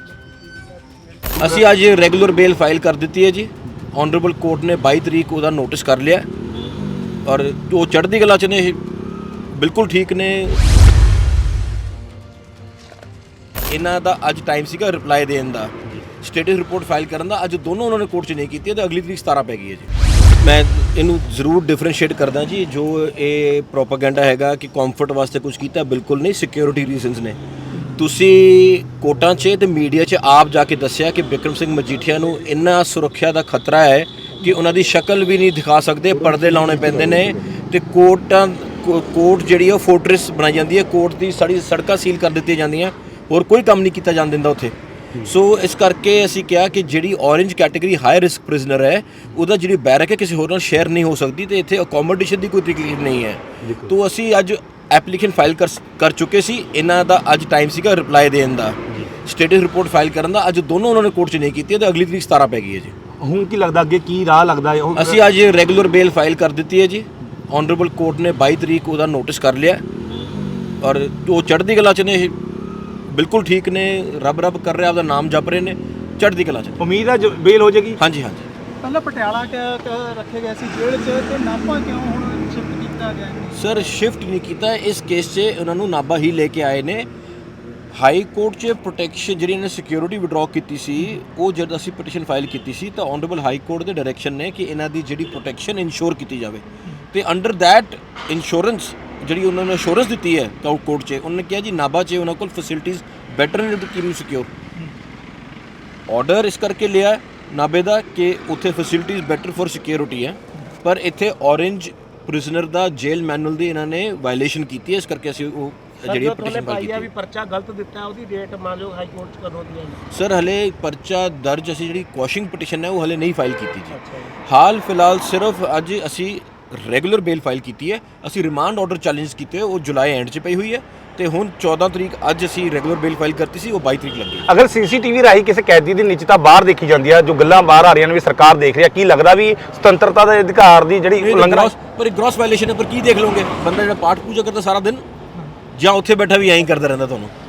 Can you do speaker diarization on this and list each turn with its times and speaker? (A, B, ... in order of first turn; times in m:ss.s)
0:01.4-0:06.3 A
0:07.2-0:08.8 A
0:09.5-0:10.6 A
0:13.7-1:03.0 A
0:36.3-0:37.4 B
1:03.1-1:05.2 B
1:05.0-1:09.8 A
1:10.8-1:12.4 A
1:13.1-1:16.8 A
1:16.8-1:18.0 B
1:18.0-1:18.5 A
1:18.8-1:23.7 C
1:23.5-1:27.1 A
1:27.9-1:44.5 A
1:46.1-1:57.1 A
1:56.1-2:00.0 D
2:00.1-2:14.5 A
2:04.0-2:04.3 D
2:14.5-2:21.7 B
2:21.2-2:25.0 A
2:25.7-2:27.3 A